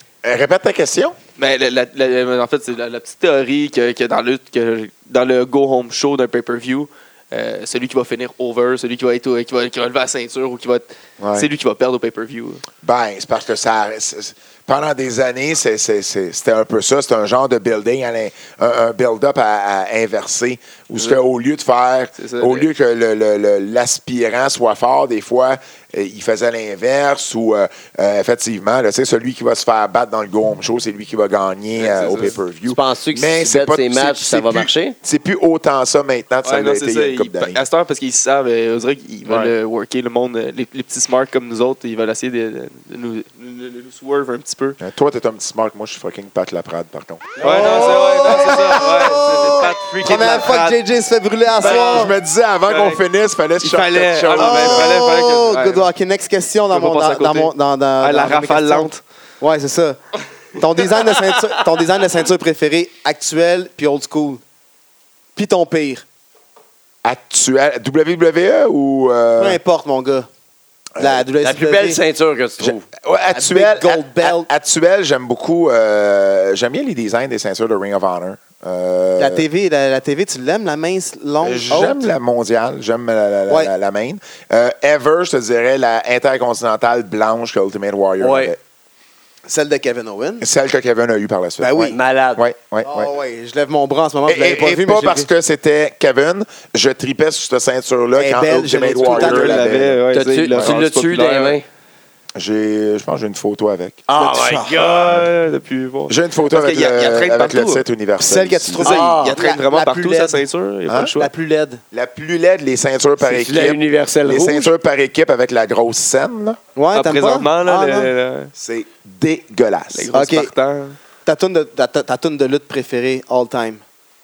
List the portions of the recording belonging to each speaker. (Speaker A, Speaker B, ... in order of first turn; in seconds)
Speaker A: 0.2-1.1, 11.2-11.5, 12.8-37.6, 39.2-39.5, 44.8-49.3, 51.6-54.9, 67.0-69.6, 71.0-71.2, 72.6-79.4, 81.4-88.6, 90.4-93.1, 94.2-100.0, 102.3-104.0, 106.1-109.0, 111.9-116.6, 118.5-120.1
Speaker B: 1.4-12.6, 22.1-22.6, 31.8-32.4, 36.4-44.8, 47.4-50.8, 51.5-53.0, 53.6-55.9, 56.7-59.0, 60.9-61.4, 99.0-101.6, 104.9-107.8, 108.9-111.3, 116.9-118.5, 119.9-121.0
Speaker C: 32.7-35.0, 71.4-72.8, 88.2-88.5, 91.9-92.4, 100.1-101.6, 104.1-105.2, 108.8-109.4, 113.2-114.7
Speaker D: 47.4-52.1, 54.4-60.0, 60.5-64.4, 65.3-66.0, 69.4-70.3, 71.0-72.0, 73.3-74.5, 79.2-82.1, 89.5-90.4, 91.6-92.0, 92.8-95.3, 98.2-99.7, 104.2-104.8, 108.2-110.4, 111.2-111.8, 116.7-118.1, 120.1-120.5, 121.2-123.8